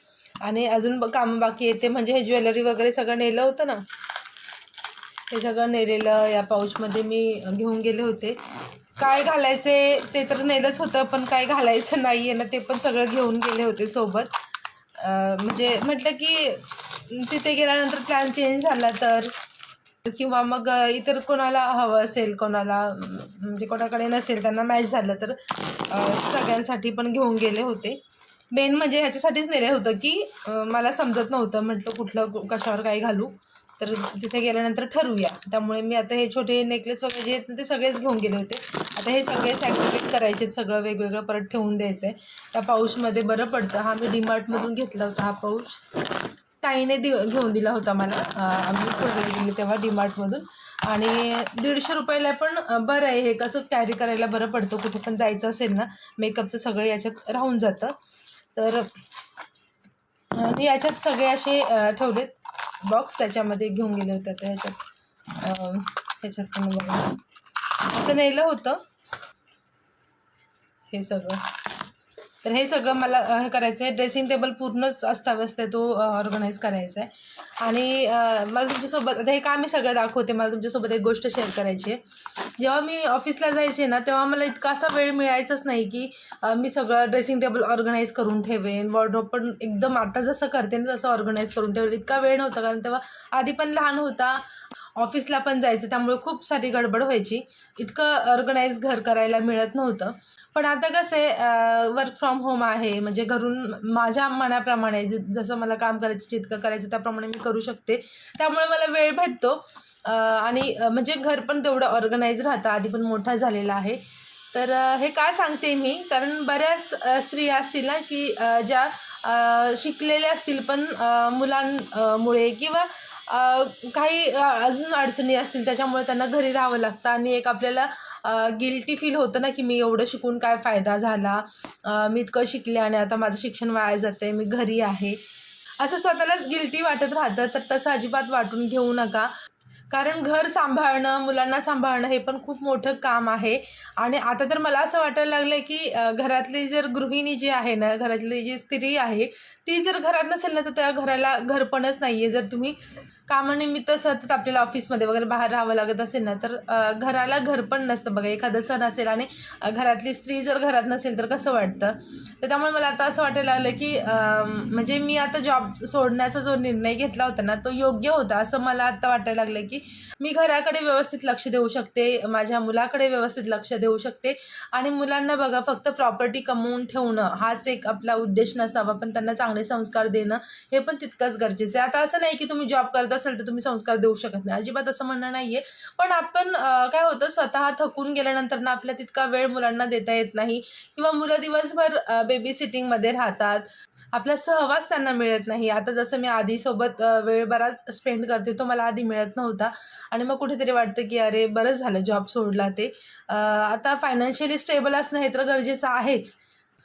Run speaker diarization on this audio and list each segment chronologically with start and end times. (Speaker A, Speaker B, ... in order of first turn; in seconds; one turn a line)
Speaker A: 0.4-3.8
Speaker A: 5.3-8.4
Speaker A: 9.0-14.3
Speaker A: 15.0-19.3
Speaker A: 20.0-28.0
Speaker A: 28.5-45.8
Speaker A: 46.6-57.9
Speaker A: 58.5-58.9
Speaker A: 60.3-64.8
Speaker A: 65.4-67.2
Speaker A: 67.9-68.8
Speaker A: 70.9-71.5
Speaker A: 72.4-82.0
Speaker A: 82.6-94.4
Speaker A: 95.0-114.0
Speaker A: 114.5-135.2
Speaker A: 135.8-139.3
Speaker A: 139.9-152.8
Speaker A: 153.3-206.4